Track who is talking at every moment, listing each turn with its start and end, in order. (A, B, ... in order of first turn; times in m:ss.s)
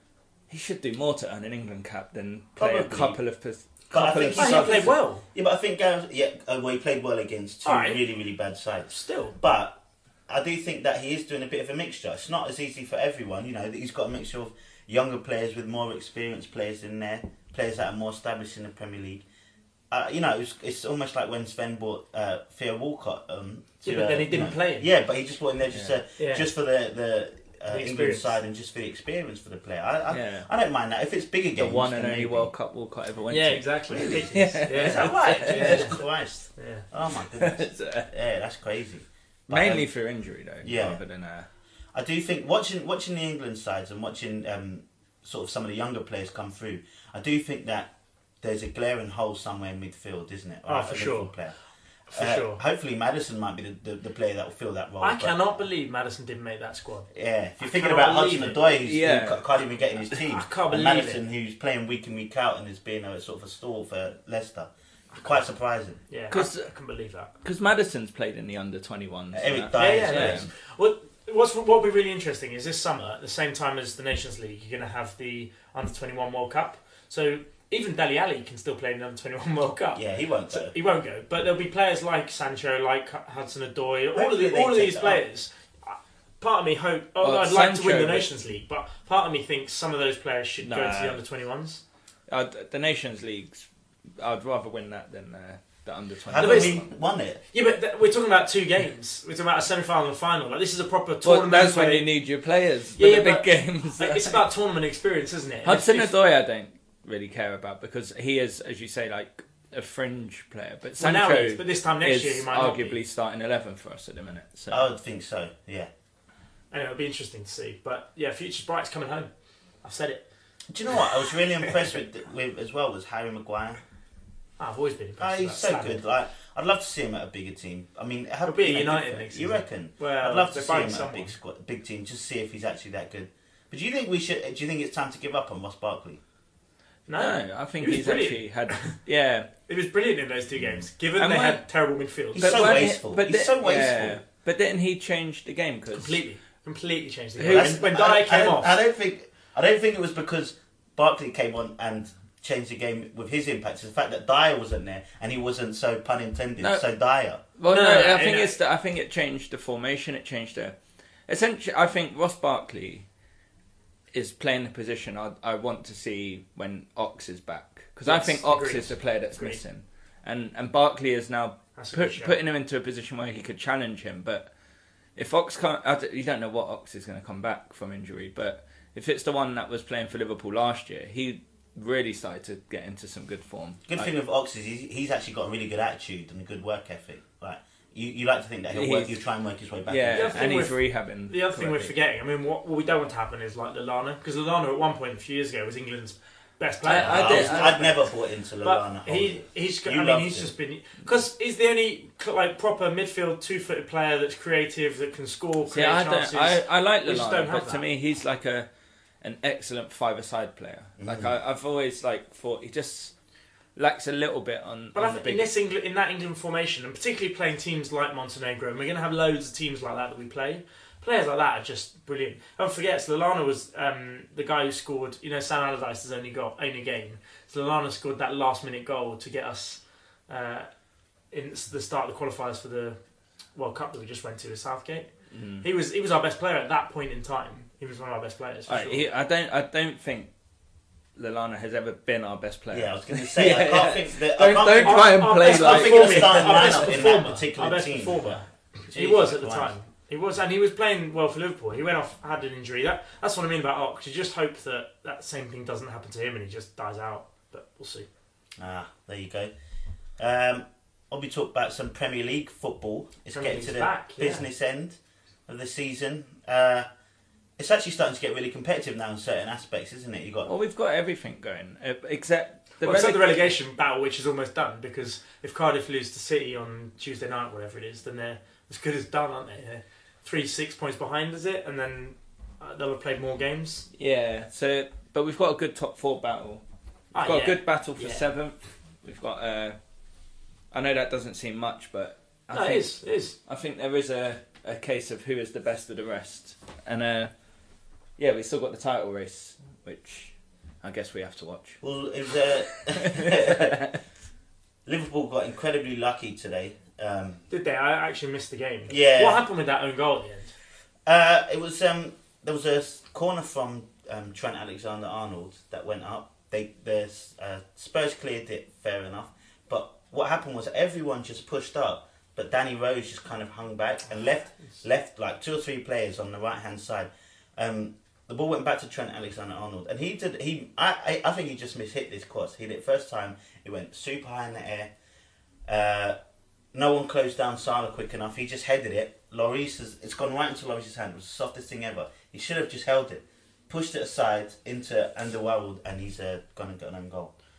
0:00.5-0:04.9 A
0:02.6-0:03.2 B
0:03.9-0:19.2 B
0:04.4-0:05.2 C
0:07.6-0:08.0 C
0:08.9-0:09.4 C
0:19.9-0:32.5 B
0:23.8-0:24.9 C
0:25.7-0:26.0 A
0:26.2-0:26.5 C
0:27.7-0:28.4 C
0:30.1-0:30.5 A
0:31.6-0:36.0 A
0:33.3-0:36.0 C
0:33.9-0:39.9 B
0:36.6-0:36.8 C
0:37.3-0:38.1 A
0:39.5-0:41.5 A
0:40.6-0:41.0 B
0:41.9-0:51.5 B
0:50.7-0:51.3 C
0:52.1-0:52.6 C
0:52.1-0:55.5 B
0:55.0-0:57.1 C
0:57.1-1:06.0 B
0:57.6-0:58.6 C
0:58.8-0:59.5 A
1:00.1-1:01.2 C
1:06.1-1:07.3 C
1:06.3-1:06.7 A
1:07.4-1:10.5 A
1:09.3-1:10.5 B
1:09.7-1:31.8 C
1:19.9-1:20.7 B
1:24.1-1:25.2 B
1:27.2-1:28.3 A
1:30.6-1:31.2 A
1:32.3-1:33.7 A
1:34.2-1:36.8 A
1:36.3-1:37.4 B
1:36.4-1:36.8 C
1:37.5-1:42.1 C
1:41.2-1:44.4 A
1:43.0-1:46.1 C
1:45.6-1:54.9 A
1:51.0-1:53.0 C
1:54.7-1:55.9 B
1:56.7-1:59.3 C
1:59.8-2:00.2 C
2:00.7-2:03.8 B
2:04.6-2:06.0 C
2:05.2-2:16.2 B
2:08.4-2:11.3 C
2:17.1-2:18.9 C
2:17.2-2:19.5 A
2:19.7-2:22.8 C
2:21.2-2:21.6 A
2:22.3-2:24.2 B
2:22.3-2:26.2 A
2:25.9-2:28.7 C
2:27.4-2:27.8 A
2:27.5-2:37.4 B
2:37.6-2:40.8 A
2:37.7-2:38.5 C
2:41.3-2:43.0 A
2:44.1-2:54.5 A
2:48.0-2:49.6 C
2:51.8-2:52.4 C
2:55.2-3:04.1 A
3:03.9-3:10.6 B
3:08.7-3:09.2 A
3:09.9-3:11.9 A
3:10.1-3:18.0 C
3:16.8-3:17.8 A
3:17.0-3:20.5 B
3:18.6-3:27.8 C
3:25.7-3:28.7 A
3:29.2-3:33.1 A
3:31.0-3:31.4 B
3:33.8-3:35.5 A
3:34.9-3:50.7 C
3:51.3-3:53.0 C
3:53.5-3:55.1 C
3:55.3-3:55.6 A
3:55.6-3:59.1 C
3:58.7-4:00.3 A
4:01.2-4:06.9 A
4:02.7-4:09.7 B
4:04.8-4:18.1 C
4:18.6-4:19.5 B
4:20.2-4:26.9 B
4:23.3-4:24.4 C
4:27.6-4:30.5 B
4:30.4-4:33.5 A
4:32.8-4:43.9 C
4:43.9-4:46.6 A
4:47.1-4:48.3 C
4:47.1-4:49.8 A
4:50.7-4:57.3 A
4:52.5-4:53.4 C
4:58.2-5:01.8 A
5:01.8-5:03.8 B
5:02.9-5:04.0 A
5:04.8-5:07.4 B
5:07.5-5:10.5 C
5:08.9-5:09.4 B
5:11.1-5:34.9 B
5:35.7-5:36.2 B
5:36.7-5:47.3 B